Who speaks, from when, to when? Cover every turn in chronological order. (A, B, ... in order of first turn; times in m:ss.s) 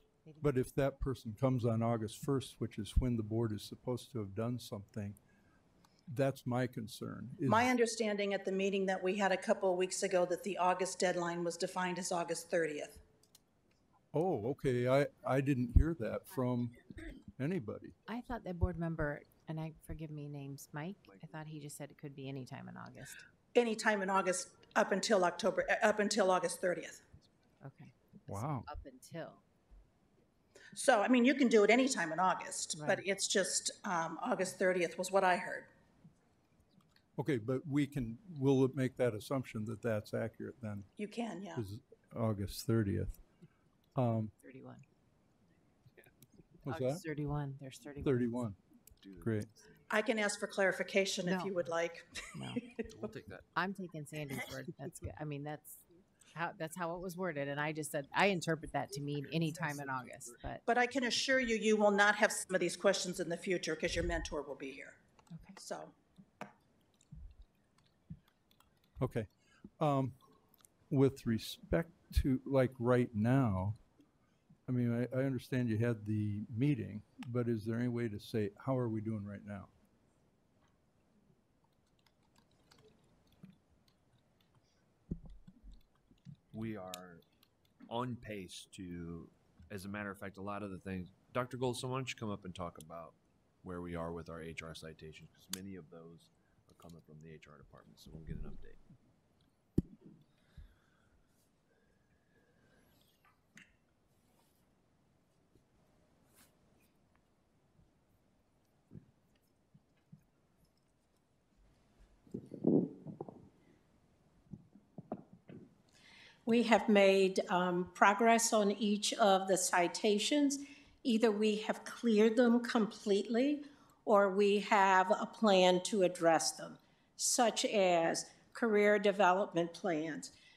0:00.4-0:05.2 A
0:06.1-0:07.7 A
0:07.4-0:13.0 B
0:14.1-0:16.8 A
0:17.4-0:18.0 A
0:18.1-0:23.2 C
0:21.1-0:21.4 D
0:23.5-0:27.0 B
0:27.6-0:29.4 C
0:28.3-0:28.7 A
0:30.7-0:35.7 B
0:32.8-0:33.0 C
0:37.2-0:40.9 A
0:41.0-0:41.6 B
0:41.6-0:43.2 A
0:43.9-0:44.3 A
0:44.4-0:44.8 C
0:46.6-0:47.0 A
0:46.7-0:48.3 C
0:48.0-0:48.6 A
0:49.0-0:49.9 D
0:49.2-0:49.5 A
0:49.9-0:52.8 B
0:51.2-0:51.7 C
0:52.3-0:52.6 C
0:52.8-0:53.5 D
0:53.6-0:55.8 C
0:56.3-1:00.6 C
0:59.3-1:00.4 D
1:00.7-1:05.0 B
1:05.6-1:05.9 B
1:09.0-1:10.2 A
1:10.9-1:13.8 A
1:14.7-1:19.7 A
1:26.5-1:27.2 D
1:27.9-1:38.8 D
1:56.4-2:10.3 E